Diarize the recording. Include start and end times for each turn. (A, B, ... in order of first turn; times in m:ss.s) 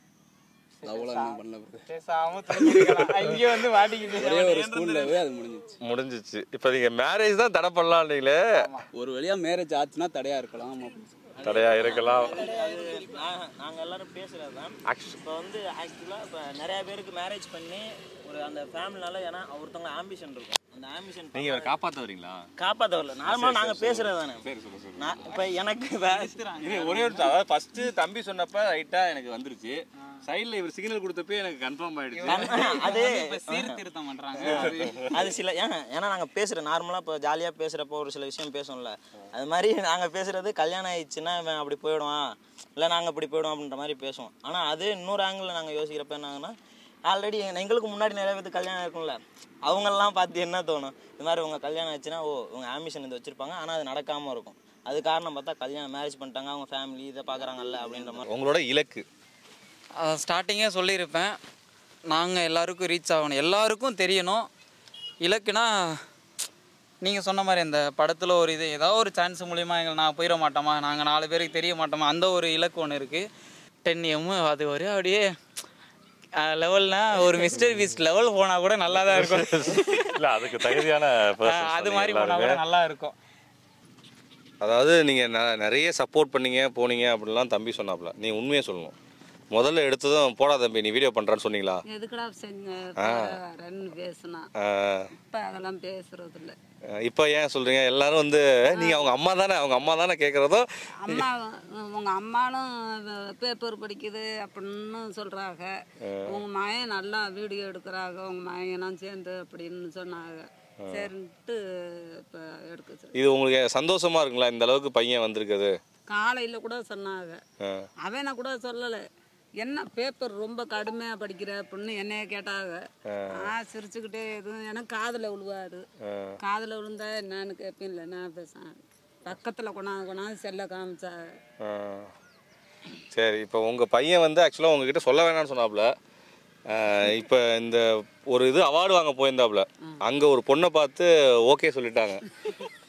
0:00.8-0:05.2 A
0:00.8-0:01.8 B
0:02.5-0:03.4 B
0:04.1-0:05.8 B
0:05.8-0:08.4 C
0:08.5-0:08.8 A
0:08.9-0:11.1 B
0:11.4-0:21.7 D
0:11.4-0:12.4 C
0:12.3-0:12.8 A
0:14.8-0:15.2 C
0:21.3-0:22.5 C
0:22.6-0:24.4 D
0:23.2-0:25.2 C
0:25.0-0:26.4 D
0:26.0-0:27.3 A
0:26.6-0:32.9 C
0:32.1-0:35.1 A
0:32.3-0:33.8 D
0:34.4-0:46.5 D
0:34.6-0:35.1 C
0:47.0-0:58.3 D
0:58.3-0:59.0 C
1:00.0-1:01.4 A
1:02.1-1:04.5 A
1:05.2-1:06.0 A
1:07.0-1:13.2 A
1:13.8-1:15.2 A
1:16.4-1:20.9 A
1:18.9-1:22.6 C
1:21.4-1:23.1 A
1:24.6-1:28.9 C
1:29.5-1:31.8 C
1:31.9-1:34.5 E
1:33.0-1:33.4 C
1:34.6-1:35.1 C
1:35.2-1:36.6 E
1:37.0-1:41.3 C
1:38.7-1:39.2 E
1:41.0-1:53.1 E
1:46.0-1:46.4 C
1:50.8-1:51.1 C
1:53.1-1:55.8 C
1:56.1-1:57.4 E
1:57.6-1:57.9 C
1:58.0-1:59.0 E
1:59.6-2:05.8 E
2:03.0-2:03.5 C
2:06.0-2:06.4 C
2:06.4-2:11.4 E
2:11.6-2:12.1 C
2:13.1-2:15.9 C
2:16.7-2:22.2 C